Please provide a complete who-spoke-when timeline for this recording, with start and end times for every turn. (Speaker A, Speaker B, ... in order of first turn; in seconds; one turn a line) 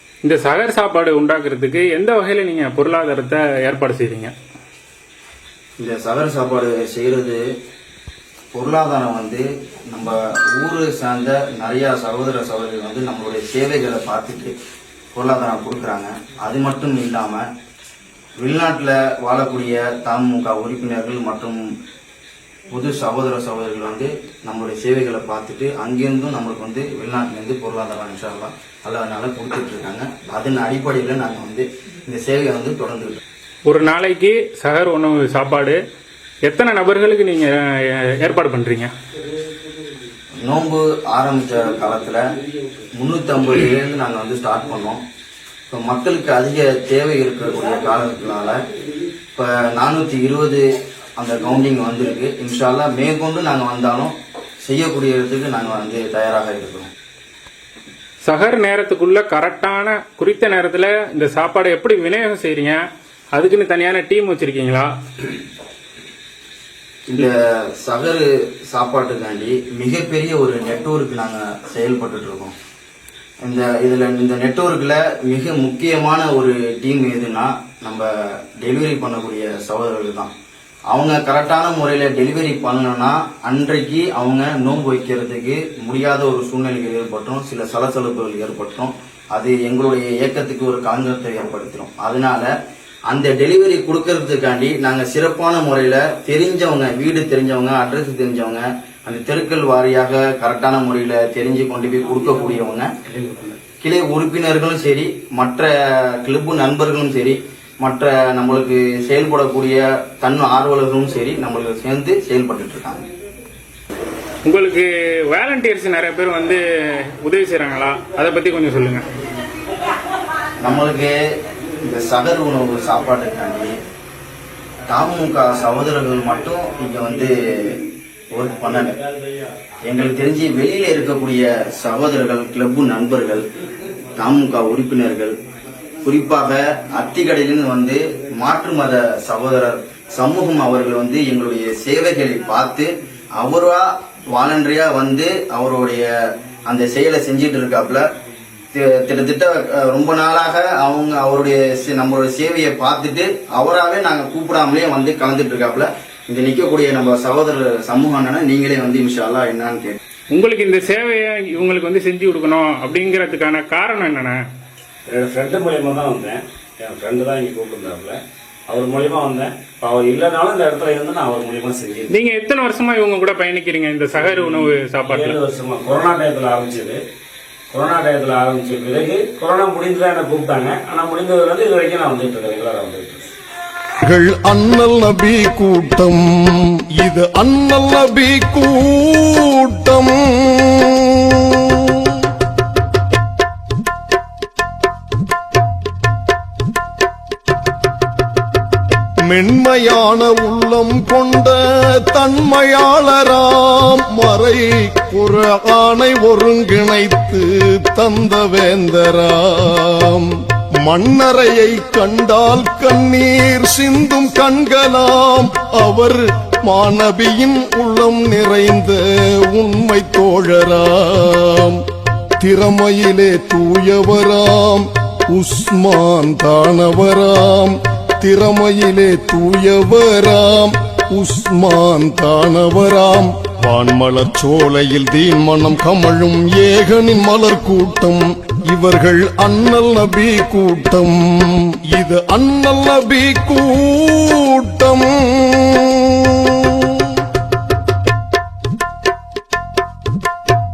Speaker A: 0.2-4.3
Speaker B: 5.8-7.4
Speaker B: 8.5-14.6
Speaker B: 15.1-17.5
Speaker B: 18.4-21.6
Speaker B: 22.7-33.2
Speaker A: 33.7-35.8
Speaker A: 36.5-38.9
Speaker B: 40.4-42.2
Speaker B: 43.0-45.0
Speaker B: 45.7-48.6
Speaker B: 49.4-50.6
Speaker B: 51.2-56.9
Speaker A: 58.2-62.8
Speaker A: 63.3-64.9
Speaker B: 67.1-72.5
Speaker B: 73.4-80.3
Speaker B: 80.9-92.5
Speaker B: 93.1-102.9
Speaker B: 103.8-113.0
Speaker A: 114.5-116.6
Speaker A: 117.2-119.0
Speaker B: 120.6-121.1
Speaker B: 121.8-123.8
Speaker B: 124.9-127.8
Speaker B: 128.3-129.0
Speaker B: 129.8-133.4
Speaker B: 134.2-135.3
Speaker B: 136.0-146.1
Speaker B: 146.7-148.1
Speaker B: 148.7-160.0
Speaker A: 160.3-164.4
Speaker C: 165.1-168.2
Speaker C: 168.7-172.1
Speaker A: 172.1-175.4
Speaker C: 174.2-177.0
Speaker C: 177.7-183.3
Speaker D: 184.0-192.1
Speaker D: 199.3-210.3
Speaker D: 210.8-221.8
Speaker D: 222.4-247.1